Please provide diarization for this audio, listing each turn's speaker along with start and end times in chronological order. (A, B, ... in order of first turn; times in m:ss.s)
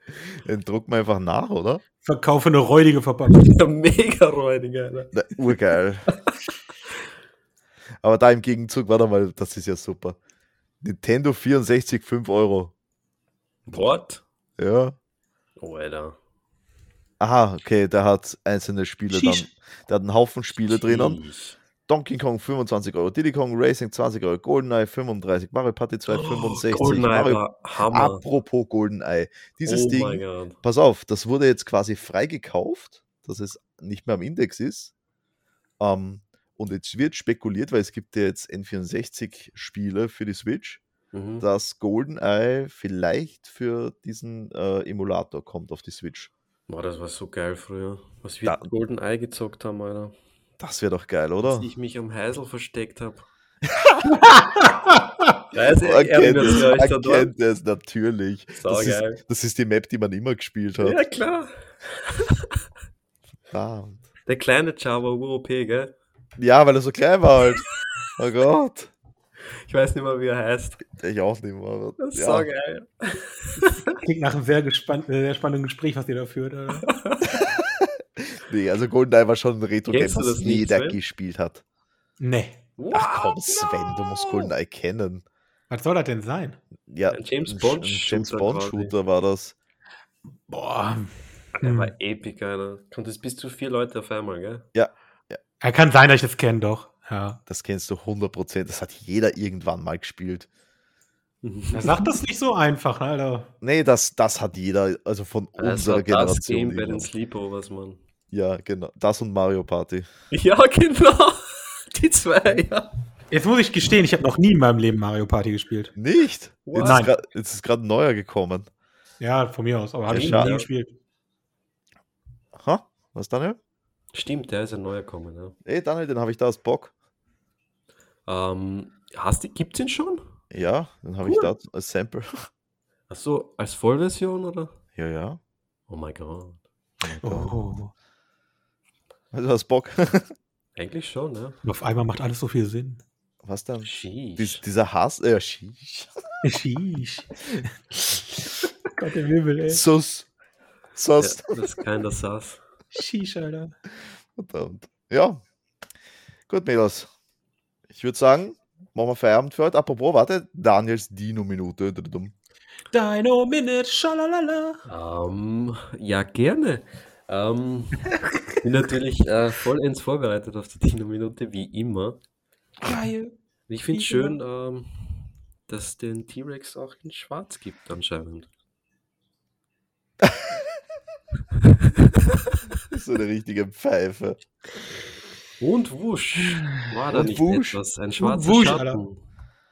0:00.4-0:01.8 A
0:02.0-0:03.5 B
0:03.3-0:05.6 C
0:05.1-0:06.0 A
0:06.1-0:06.4 C
0:08.0-0:10.2 A
0:10.8-0:12.7 A
0:13.6-0:14.2 C
0:14.6-0:15.0 A
0:15.6-0:16.2 C
0:17.2-0:21.2 A
0:19.1-0:19.4 B
0:20.6-0:21.6 C
0:21.9-0:34.9 A
0:26.1-0:28.2 C
0:29.6-0:30.6 C
0:35.8-0:40.8 A
0:41.1-0:41.4 C
0:41.4-0:46.3 A
0:46.7-0:50.1 C
0:48.4-0:48.7 A
0:50.6-0:51.7 A
0:51.4-0:53.2 C
0:53.6-0:54.3 A
0:55.5-0:57.3 C
0:55.8-1:01.0 A
0:58.6-0:59.2 C
1:00.8-1:02.6 C
1:03.5-1:04.0 A
1:04.2-1:05.9 C
1:06.4-1:07.6 A
1:08.2-1:08.9 A
1:09.4-1:10.8 C
1:11.0-1:12.5 A
1:12.0-1:14.0 C
1:14.0-1:16.9 B
1:16.8-1:17.4 C
1:17.3-1:21.6 A
1:19.9-1:21.0 C
1:22.2-1:22.6 B
1:22.8-1:24.5 C
1:22.9-1:25.2 A
1:25.7-1:26.6 B
1:26.9-1:29.5 A
1:27.1-1:28.9 C
1:30.5-1:31.9 B
1:31.5-1:34.6 C
1:34.7-1:35.4 A
1:35.6-1:37.4 B
1:37.5-1:40.5 A
1:41.4-1:42.2 C
1:41.7-1:43.5 B
1:43.6-1:47.1 A
1:45.6-1:48.0 C
1:48.3-1:50.1 A
1:50.3-1:52.9 C
1:53.3-1:55.9 B
1:56.0-1:58.7 A
1:56.7-1:57.1 C
1:56.8-1:57.1 B
1:59.2-2:00.9 B
2:00.1-2:00.6 A
2:00.1-2:00.7 C
2:02.6-2:03.6 A
2:04.1-2:05.5 C
2:05.6-2:06.9 A
2:08.2-2:10.2 C
2:10.5-2:12.4 A
2:13.1-2:14.7 C
2:14.9-2:15.4 A
2:15.9-2:16.6 C
2:17.0-2:17.6 A
2:17.2-2:17.9 B
2:19.3-2:20.3 A
2:20.8-2:21.6 C
2:21.6-2:23.0 B
2:23.4-2:26.1 A
2:23.8-2:24.6 C
2:26.4-2:27.7 B
2:28.9-2:29.8 B
2:29.7-2:30.3 A
2:30.9-2:31.6 A
2:31.2-2:32.6 C
2:32.9-2:33.7 B
2:34.4-2:35.4 A
2:36.5-2:37.1 A
2:37.9-2:42.3 A
2:42.9-2:44.8 B
2:44.8-2:52.2 C
2:52.8-2:53.3 B
2:53.7-2:58.5 C
2:53.9-2:54.4 B
3:01.8-3:02.6 C
3:02.9-3:04.4 A
3:05.6-3:09.2 C
3:07.1-3:07.8 A
3:08.2-3:09.0 B